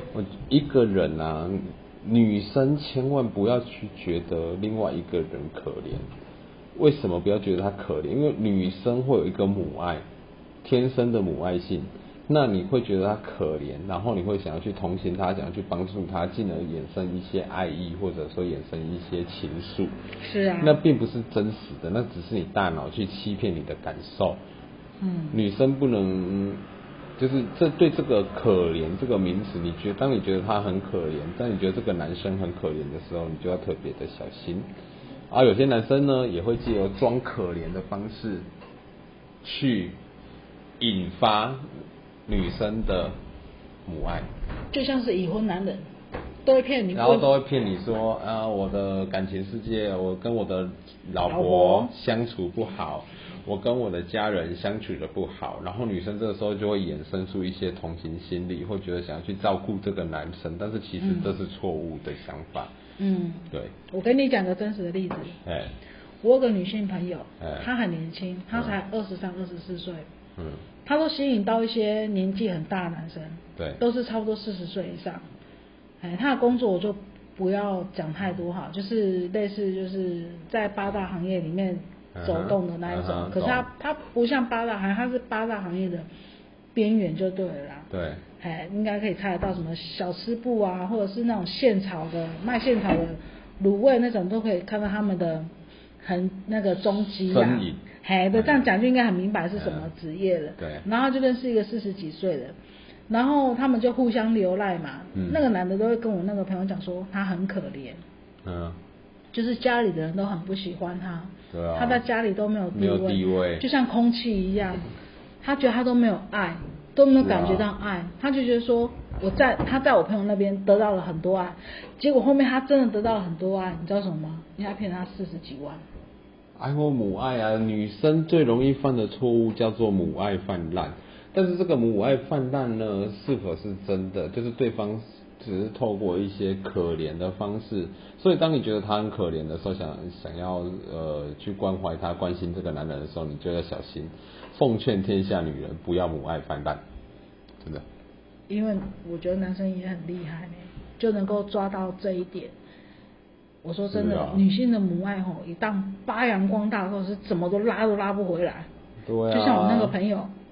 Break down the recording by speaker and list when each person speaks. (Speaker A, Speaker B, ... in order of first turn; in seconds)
Speaker A: 0.1-6.1, 6.8-10.1, 10.6-20.0, 20.6-24.4, 25.3-26.6, 27.2-34.7, 35.3-38.5, 39.4-40.0, 40.8-41.6, 42.3-43.1, 43.9-44.3, 46.9-62.7, 65.4-65.8, 67.4-67.7, 70.4-70.7, 73.5-73.8, 82.1-83.7, 87.9-88.2, 97.2-97.8, 98.3-98.7, 99.5-99.9, 100.6-100.8, 105.1-105.4, 108.4-108.8, 111.5-112.0, 112.7-113.6, 117.2-117.7, 126.6-146.8, 153.9-154.4, 159.0-160.0
Speaker B: 20.2-20.8, 25.0-25.4, 44.7-45.9, 46.5-47.3, 51.2-51.9, 61.0-61.4, 63.0-65.4, 66.2-70.0, 70.8-75.2, 76.0-86.1, 86.8-87.9, 88.4-95.5, 96.0-102.6, 103.1-108.0, 109.3-114.9, 115.4-125.8, 148.5-152.5, 153.6-158.7, 159.3-160.3